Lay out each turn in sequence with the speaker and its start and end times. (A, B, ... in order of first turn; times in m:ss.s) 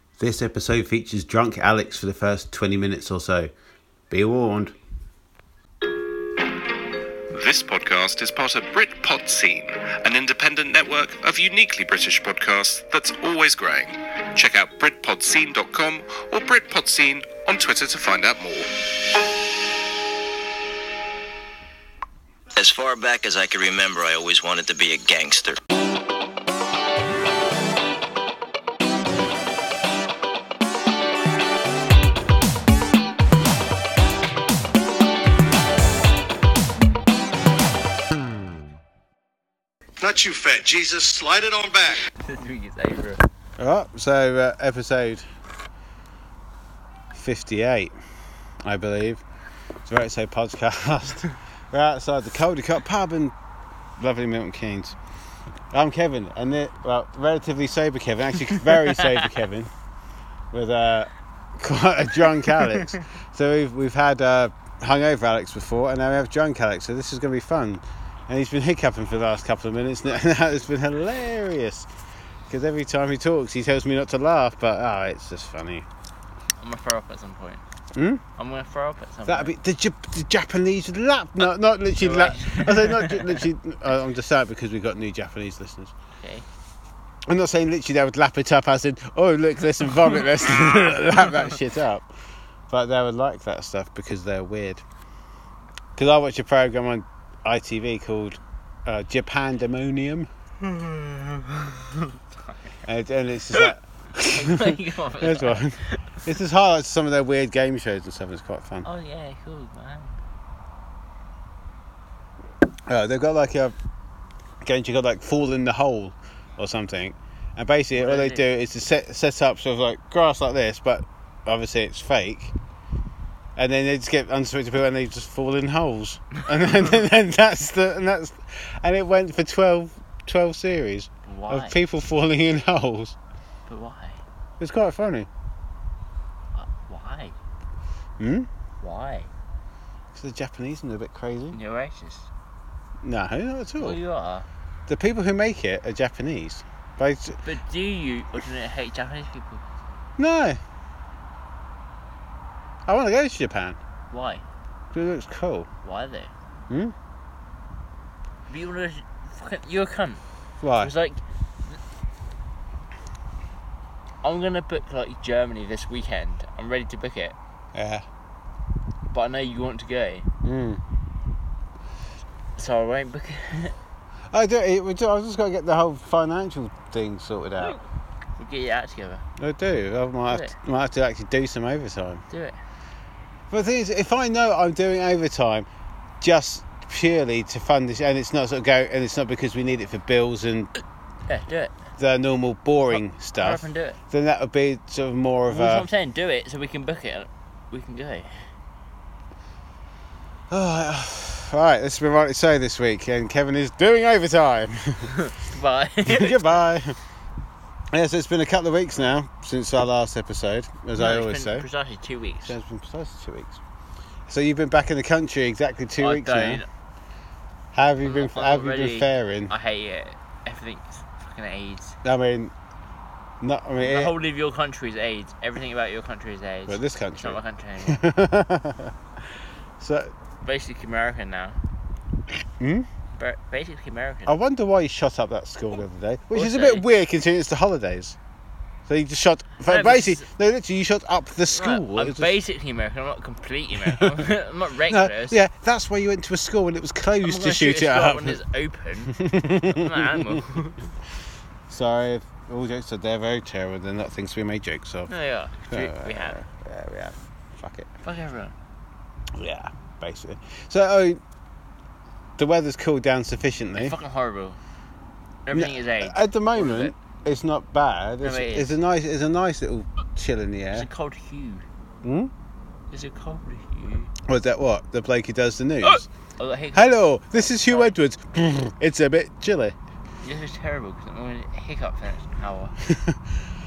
0:00.2-0:03.5 A
0:04.1-0:04.8 A
0:07.3-0:18.8 B
0:22.5-0:25.6 C
0:40.0-0:42.0 D
0:42.2-0:43.2 E
0:43.6-0:45.2 A
0:47.1-0:48.0 A
0:48.6-0:49.2 A
0:49.9-0:53.4 A
0:54.0-0:55.0 A
0:55.7-0:59.7 A
1:00.5-1:11.9 A
1:12.5-1:15.9 A
1:16.6-1:17.6 E
1:18.0-1:18.2 A
1:18.4-1:19.5 E
1:19.3-1:25.9 A
1:22.0-1:23.5 E
1:27.3-1:32.1 A
1:32.7-1:34.8 A
1:36.0-1:40.3 A
1:40.7-1:42.6 E
1:42.8-1:48.9 A
1:43.5-1:46.2 E
1:48.8-1:50.2 E
1:52.9-1:53.8 A
1:54.6-2:02.5 A
1:58.0-1:58.4 E
2:03.6-2:13.2 A
2:11.2-2:11.8 E
2:13.7-2:14.2 E
2:14.6-2:15.3 A
2:16.6-2:17.4 E
2:18.2-2:18.5 A
2:18.8-2:19.3 E
2:20.1-2:21.6 A
2:21.5-2:22.3 E
2:23.0-2:24.0 A
2:23.8-2:24.5 E
2:24.9-2:27.4 A
2:27.4-2:29.6 E
2:30.2-2:30.6 A
2:32.9-2:33.8 A
2:34.1-2:34.4 E
2:34.9-2:35.7 A
2:35.8-2:36.3 E
2:36.7-2:36.9 A
2:38.5-2:40.2 E
2:40.6-2:40.9 A
2:40.8-2:41.8 E
2:44.2-2:47.4 E
2:47.7-2:48.0 A
2:49.1-2:50.3 E
2:50.4-2:50.8 A
2:52.6-2:53.8 E
2:54.3-2:57.8 A
2:58.4-2:59.2 E
2:59.4-3:02.2 A
3:00.3-3:00.6 E
3:02.3-3:02.6 E
3:03.5-3:05.7 A
3:06.2-3:10.7 A
3:11.3-3:11.8 E
3:12.0-3:15.9 A
3:12.9-3:14.0 E
3:15.5-3:18.5 E
3:20.5-3:25.1 A
3:25.1-3:26.5 E
3:26.0-3:27.0 A
3:27.9-3:31.7 A
3:31.0-3:32.6 E
3:32.5-3:33.6 A
3:34.3-3:36.6 A
3:36.0-3:36.7 E
3:37.7-3:39.5 A
3:38.0-3:42.0 E
3:42.0-3:42.5 A
3:43.4-3:44.1 A
3:43.8-3:48.0 E
3:46.7-3:48.9 A
3:49.8-3:50.1 A
3:50.4-3:51.6 E
3:52.6-3:52.9 A
3:53.1-3:54.4 E
3:54.3-3:58.2 A
3:56.3-3:56.9 E
3:58.9-4:02.3 A
3:59.7-4:00.3 E
4:01.5-4:05.4 E
4:03.8-4:04.2 A
4:04.9-4:08.4 A
4:07.2-4:10.8 E
4:09.1-4:10.4 A
4:11.7-4:15.1 A
4:15.1-4:16.4 E
4:15.7-4:17.9 A
4:18.0-4:18.6 E
4:19.4-4:21.2 A
4:22.4-4:24.0 A
4:23.8-4:24.6 E
4:25.4-4:26.9 E
4:25.5-4:30.9 A
4:28.2-4:28.8 E
4:30.7-4:31.6 E
4:32.0-4:32.3 A
4:32.9-4:34.1 E
4:34.3-4:36.1 A
4:35.8-4:38.0 E
4:36.7-4:39.8 A
4:40.2-4:42.8 E
4:42.8-4:43.2 A